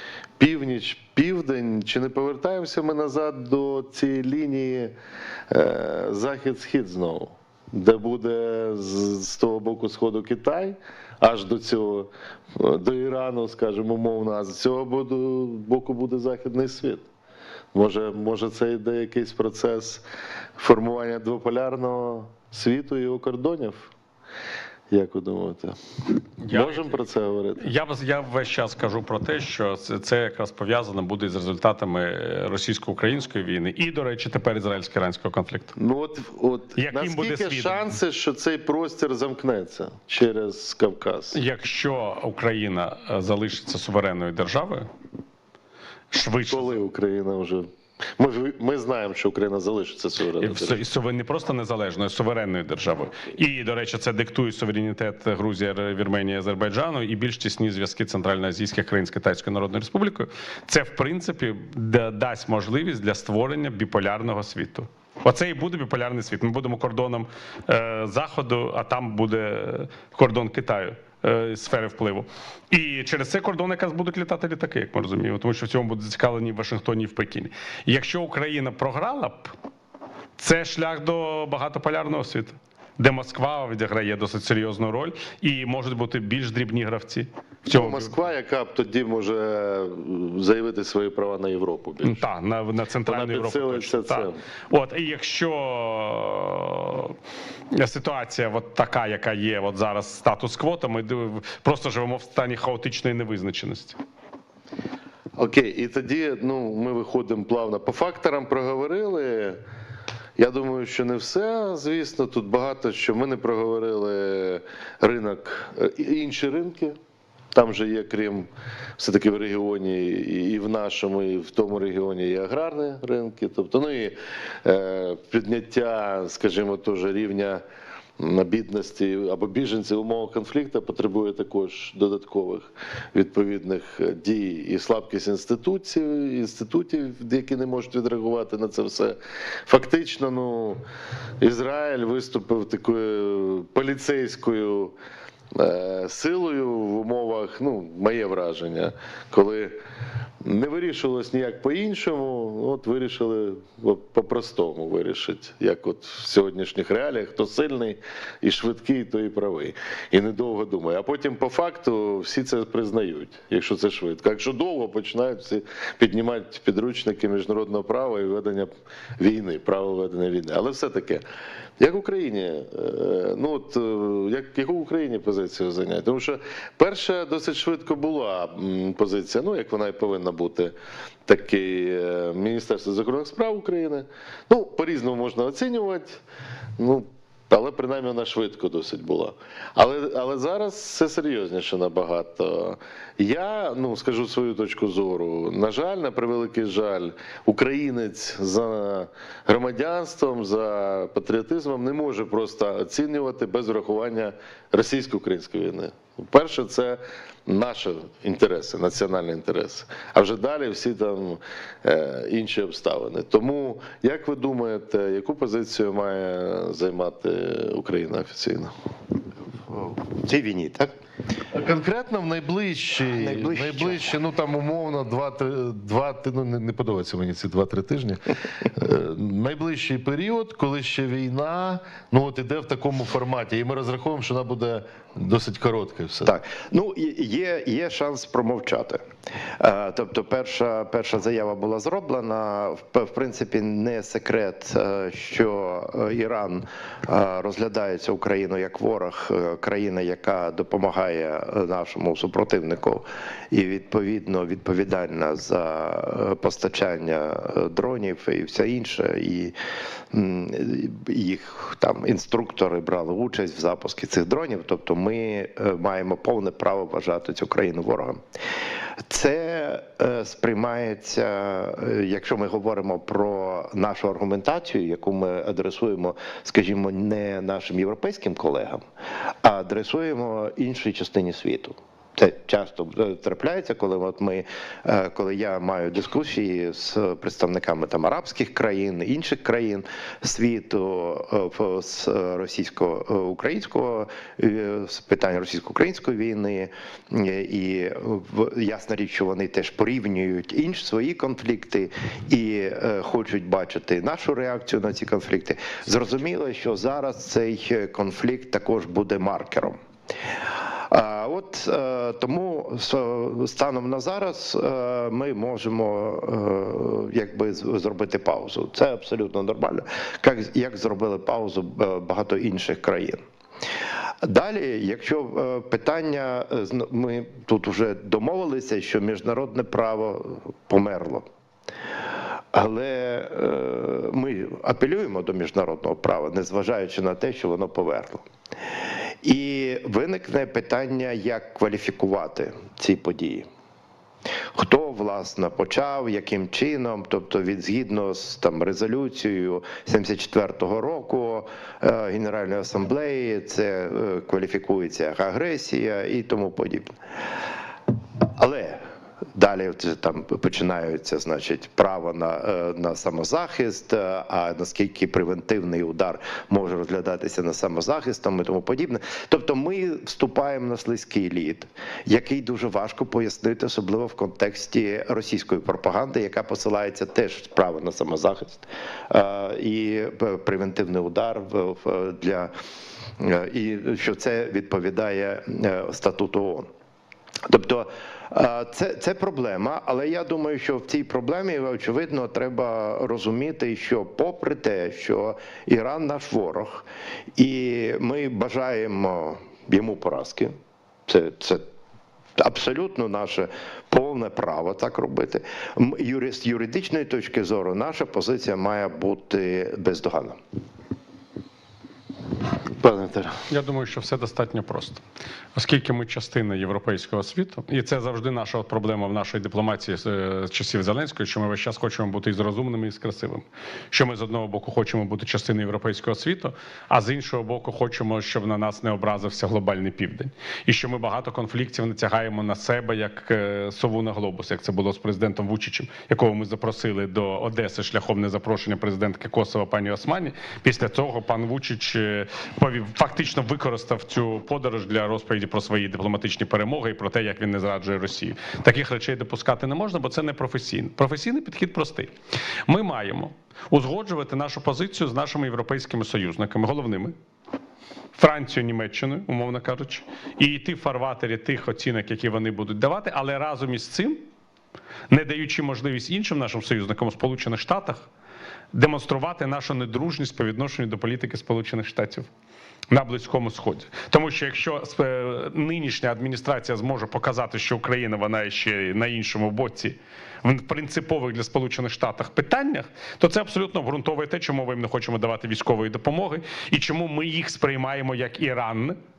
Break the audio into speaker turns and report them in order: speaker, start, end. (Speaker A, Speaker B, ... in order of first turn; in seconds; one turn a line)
Speaker A: 0.4-4.9
Speaker A: 5.5-17.1
Speaker A: 17.7-20.0
Speaker A: 20.6-23.9
Speaker A: 24.9-25.8
Speaker B: 26.4-27.0
Speaker A: 26.5-27.7
Speaker B: 27.6-35.8
Speaker A: 35.8-41.4
Speaker B: 36.8-37.9
Speaker B: 41.3-44.9
Speaker B: 46.1-46.8
Speaker A: 46.5-50.8
Speaker B: 50.4-79.5
Speaker B: 80.4-88.2
Speaker A: 87.7-92.3
Speaker B: 92.0-97.2
Speaker A: 93.0-94.4
Speaker B: 97.7-104.0
Speaker A: 105.4-109.6
Speaker A: 110.4-117.0
Speaker A: 117.5-127.6
Speaker A: 128.2-140.8
Speaker A: 141.4-145.0
Speaker A: 145.5-149.8
Speaker A: 150.4-171.2
Speaker A: 171.8-180.7
Speaker A: 181.3-186.2
Speaker A: 186.8-218.7
Speaker C: 219.7-220.9
Speaker A: 221.5-236.3
Speaker C: 223.0-224.1
Speaker C: 236.3-239.0
Speaker C: 239.6-259.5
Speaker C: 260.1-268.2
Speaker C: 269.1-278.8
Speaker C: 279.4-309.8
Speaker C: 310.9-323.2
Speaker C: 324.2-331.2
Speaker C: 332.5-338.2
Speaker C: 339.2-343.5
Speaker C: 344.6-356.9
Speaker C: 358.4-358.8
Speaker C: 359.4-382.5
Speaker C: 383.2-386.7
Speaker C: 387.5-400.5
Speaker C: 401.1-401.6
Speaker C: 402.4-410.4
Speaker A: 412.8-413.4
Speaker B: 413.5-415.0
Speaker B: 415.6-452.1
Speaker B: 452.7-457.1
Speaker B: 458.2-464.2
Speaker B: 465.1-468.1
Speaker B: 468.7-472.3
Speaker B: 472.9-489.0